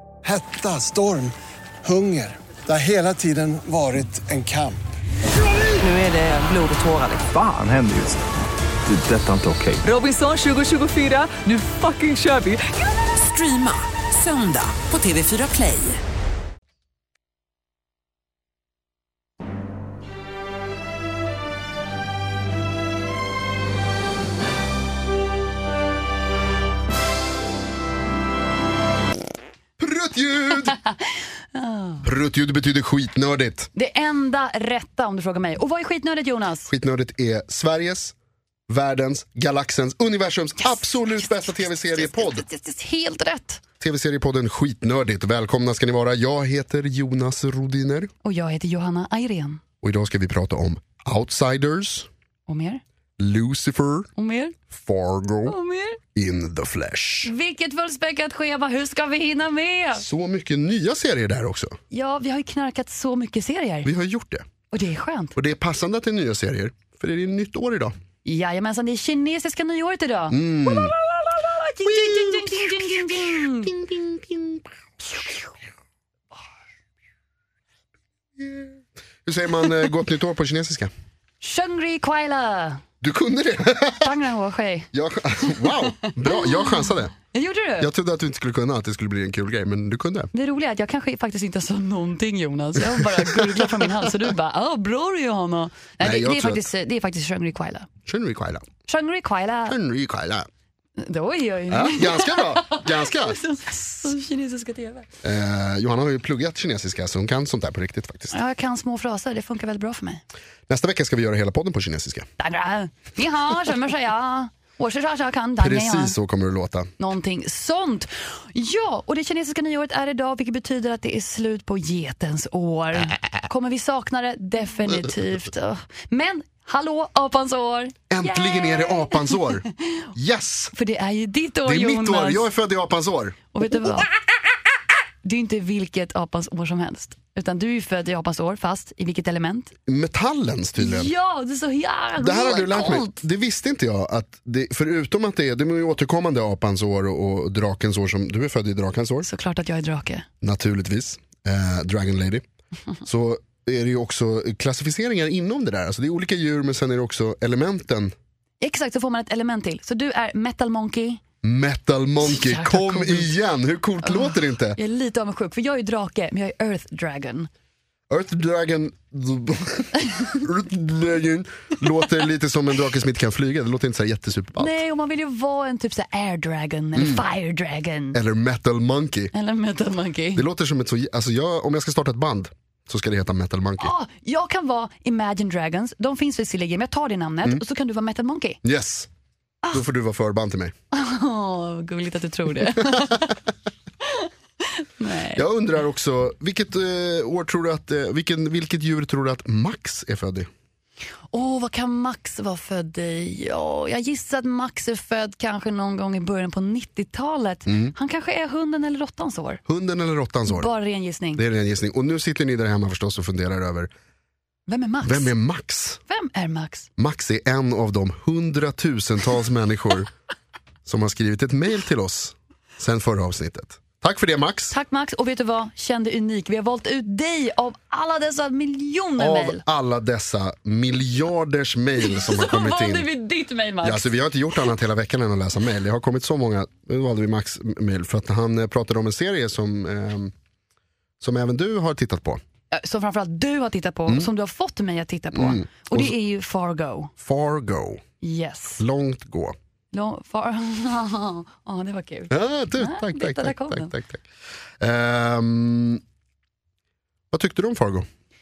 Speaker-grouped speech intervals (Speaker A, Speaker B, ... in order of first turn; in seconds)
Speaker A: 0.2-4.8
Speaker B: 5.8-7.3, 9.8-16.0
Speaker C: 7.3-8.2, 8.9-9.8
Speaker D: 29.8-30.8, 32.0-33.7, 36.7-38.1, 38.7-42.5, 43.8-48.1, 49.8-52.1, 53.2-54.1, 54.7-55.6, 56.1-57.3, 60.0-61.8, 63.8-64.5, 65.4-67.9, 70.3-71.0, 71.8-75.2, 78.4-80.9, 83.0-84.1, 84.9-87.1, 87.8-90.3, 93.0-94.1, 96.0-96.7, 98.1-98.7, 99.7-100.5, 101.7-103.4, 105.2-108.4, 110.7-112.3, 115.6-116.9, 128.1-130.7, 131.7-134.0, 139.9-141.1, 142.2-149.3, 150.4-152.4, 153.0-158.1, 161.4-164.8, 168.1-174.8, 176.9-177.2, 178.1-179.3, 180.3-183.9, 188.6-189.1, 189.7-190.7, 192.8-193.3, 195.3-200.5, 207.7-207.9, 209.7-210.7, 211.4-213.9, 215.0-216.0, 217.0-220.1, 220.8-224.7, 229.2-233.1, 233.8-240.3, 241.2-242.4, 245.3-246.2, 247.2-248.0, 248.8-249.6, 252.3-254.2, 254.8-256.0, 257.3-258.1
Speaker E: 30.6-31.0, 31.5-32.1, 33.7-36.7, 40.6-43.6, 48.2-49.6, 52.5-52.8, 54.2-54.6, 55.5-56.0, 57.2-60.0, 61.9-63.9, 64.7-65.4, 68.2-73.8, 81.4-82.8, 84.0-84.9, 85.7-86.8, 87.3-87.9, 90.3-97.9, 98.9-99.8, 101.0-105.1, 108.3-110.2, 112.4-116.2, 117.0-129.6, 130.7-132.5, 133.5-134.1, 135.2-139.7, 140.8-143.2, 149.2-150.3, 158.6-161.2, 162.2-163.3, 164.0-167.5, 174.6-178.2, 179.3-180.4, 183.8-188.6, 190.9-193.4, 194.1-195.4, 201.3-209.6, 210.5-211.4, 214.7-215.3, 216.1-216.9, 224.7-229.6, 232.1-234.1, 242.7-247.1, 248.2-248.8, 249.9-253.9